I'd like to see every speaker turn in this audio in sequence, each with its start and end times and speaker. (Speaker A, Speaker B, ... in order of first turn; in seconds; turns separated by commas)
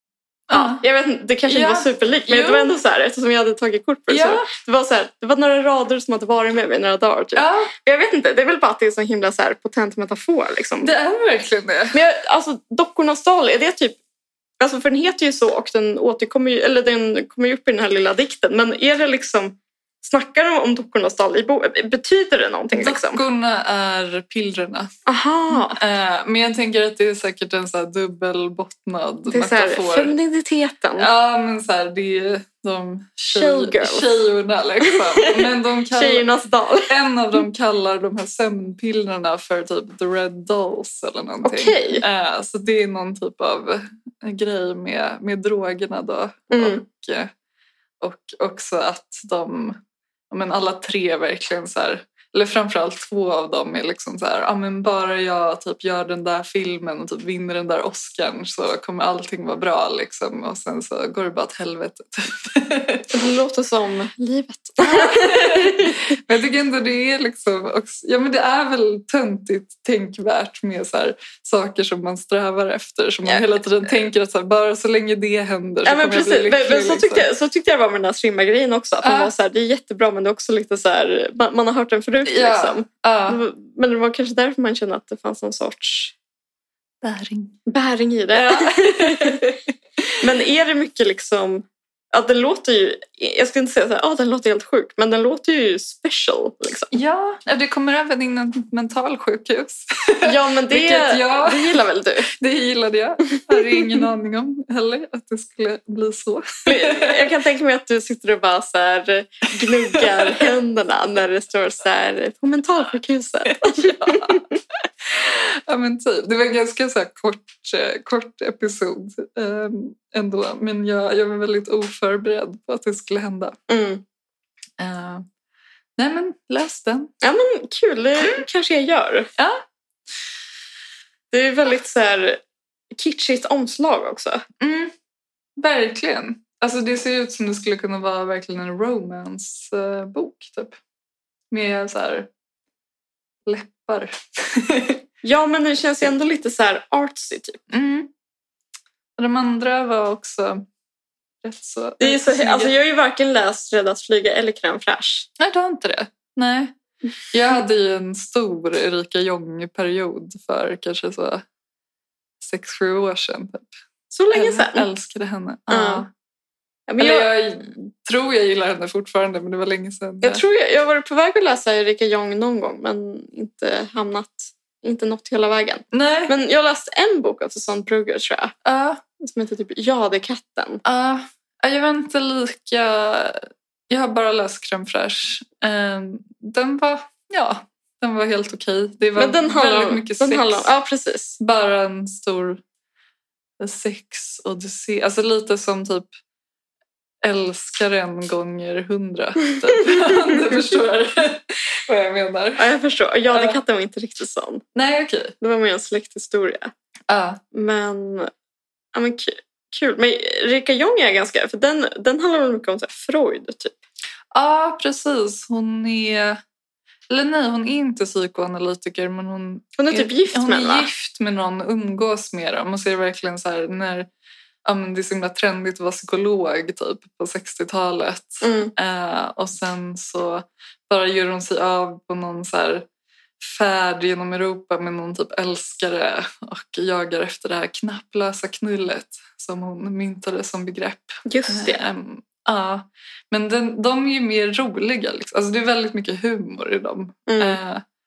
Speaker A: 0.5-0.8, Speaker B: 0.5-10.9, Speaker A: 1.5-2.8, Speaker A: 4.1-4.5, Speaker A: 7.3-7.7, Speaker A: 10.8-12.0, Speaker B: 11.9-14.0, Speaker B: 14.6-23.2, Speaker A: 22.7-24.9, Speaker B: 25.1-25.8, Speaker A: 25.5-30.1, Speaker B: 29.3-31.1, Speaker A: 31.0-36.3, Speaker B: 33.3-34.1, Speaker B: 34.8-36.9, Speaker A: 36.9-47.3, Speaker B: 41.4-42.0, Speaker B: 46.5-46.8, Speaker A: 48.0-49.8, Speaker A: 50.3-63.2, Speaker B: 63.1-66.0, Speaker A: 64.8-77.3, Speaker B: 75.8-86.1, Speaker A: 79.0-79.3, Speaker A: 82.3-83.4, Speaker A: 87.0-87.6, Speaker B: 87.7-89.5, Speaker A: 88.3-89.6, Speaker B: 90.2-96.9, Speaker A: 96.9-101.8, Speaker B: 100.2-102.3, Speaker A: 102.3-107.3, Speaker B: 106.7-114.5, Speaker A: 109.7-110.5, Speaker A: 113.4-114.4, Speaker A: 115.0-123.6, Speaker B: 123.7-124.0, Speaker A: 124.8-125.3, Speaker A: 126.0-127.1, Speaker B: 127.2-129.3, Speaker A: 129.4-129.6, Speaker B: 131.3-132.4, Speaker B: 132.9-134.4, Speaker A: 134.6-134.9, Speaker A: 135.6-140.8, Speaker A: 141.5-142.3, Speaker A: 143.4-145.0, Speaker B: 145.2-147.6, Speaker A: 147.7-148.1, Speaker A: 149.2-150.7, Speaker A: 151.4-152.7, Speaker B: 152.0-155.3, Speaker A: 155.4-156.7, Speaker A: 157.3-161.4, Speaker A: 162.4-163.7, Speaker B: 164.1-164.9, Speaker A: 164.3-166.1, Speaker B: 165.7-166.1, Speaker B: 166.9-167.3, Speaker A: 167.0-170.4, Speaker B: 170.2-178.6, Speaker A: 175.9-176.3, Speaker A: 178.6-179.0, Speaker B: 179.2-180.8, Speaker A: 180.8-190.7, Speaker B: 189.2-191.4, Speaker A: 191.4-192.6, Speaker A: 193.6-196.1, Speaker A: 197.2-202.7, Speaker B: 202.6-204.6, Speaker A: 203.3-203.6, Speaker A: 204.7-205.3, Speaker B: 205.4-206.7, Speaker A: 207.1-207.4, Speaker B: 207.5-208.3, Speaker B: 208.9-213.8, Speaker A: 214.3-216.4, Speaker A: 217.1-224.1, Speaker B: 219.8-220.9, Speaker A: 224.6-232.8, Speaker B: 228.4-228.7, Speaker A: 233.4-247.8, Speaker B: 241.3-241.8, Speaker B: 247.3-247.6